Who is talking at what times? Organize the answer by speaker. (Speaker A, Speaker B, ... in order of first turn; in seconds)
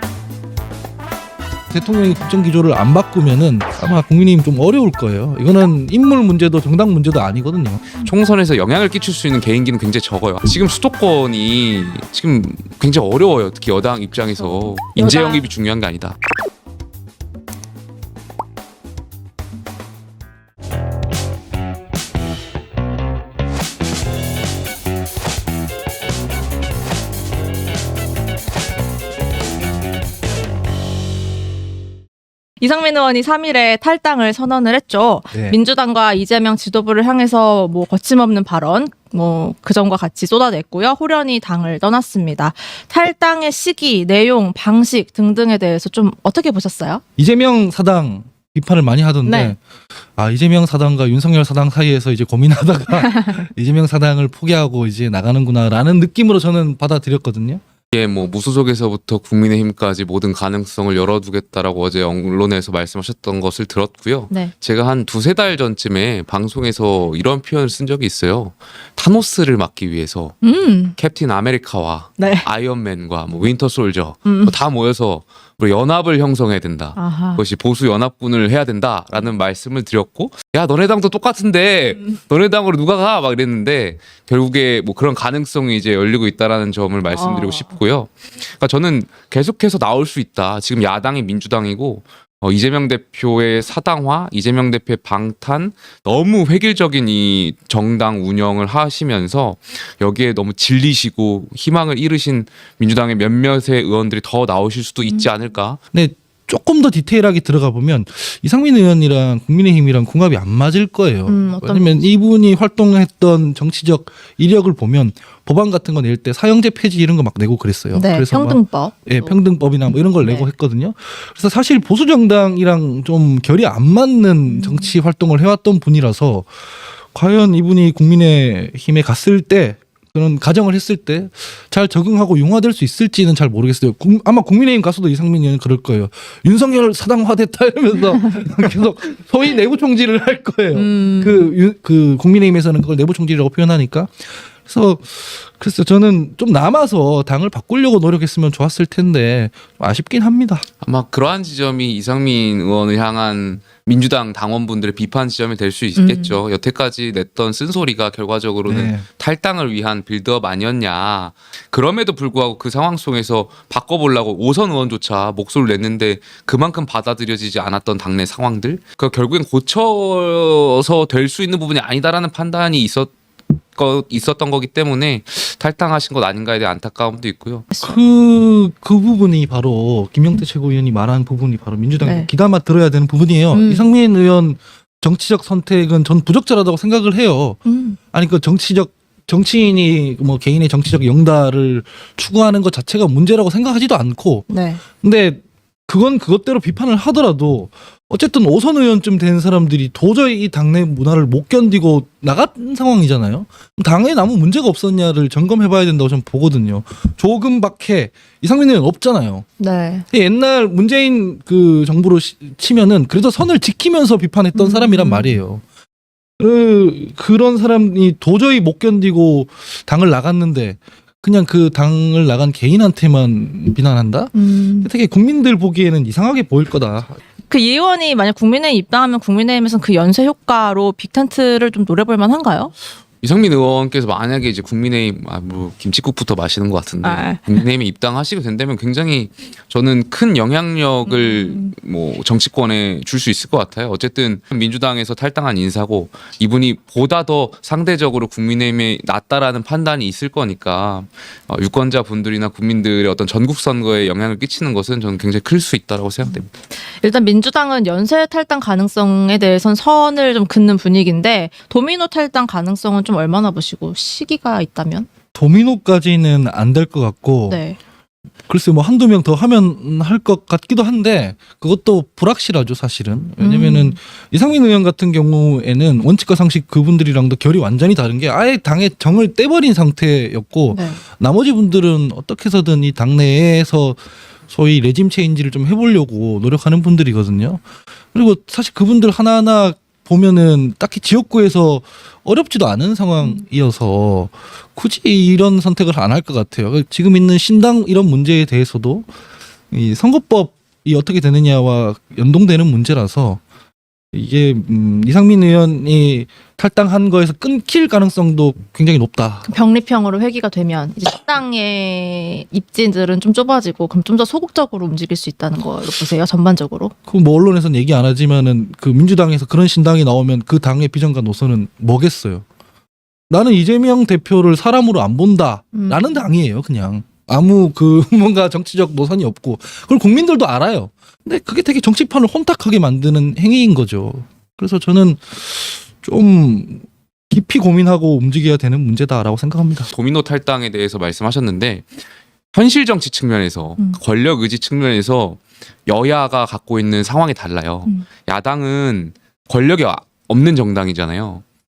Speaker A: 1.7-7.8, 35.3-35.6, 47.2-49.6, 50.2-57.6, 105.9-126.5, 127.1-150.7, 158.7-159.1, 177.8-187.6, 188.1-194.5, 195.0-209.5, 210.1-215.6, 216.4-227.2, 265.4-267.6, 268.5-287.6, 288.1-299.1, 299.7-303.4, 304.1-309.5, 317.1-322.4, 323.3-339.9
Speaker B: 8.0-16.2, 57.9-70.4, 71.0-105.8, 150.8-173.1, 173.8-177.7, 233.2-256.5, 339.9-341.9, 342.5-351.4
Speaker C: 14.8-15.5, 32.6-47.0, 49.2-49.6, 53.1-53.4, 70.4-71.0, 72.2-72.5, 74.2-74.5, 77.0-77.4, 87.1-87.7, 111.3-112.1, 117.9-119.4, 120.2-120.5, 124.5-125.0, 140.7-141.5, 156.0-156.4, 177.7-178.0, 182.0-182.3, 183.5-183.9, 187.7-188.0, 194.5-194.8, 209.6-210.1, 214.5-215.4, 224.3-224.9, 227.5-232.7, 237.0-237.5, 241.1-241.7, 257.0-265.1, 267.5-267.8, 273.4-274.0, 280.7-281.0, 309.5-316.9, 325.7-326.3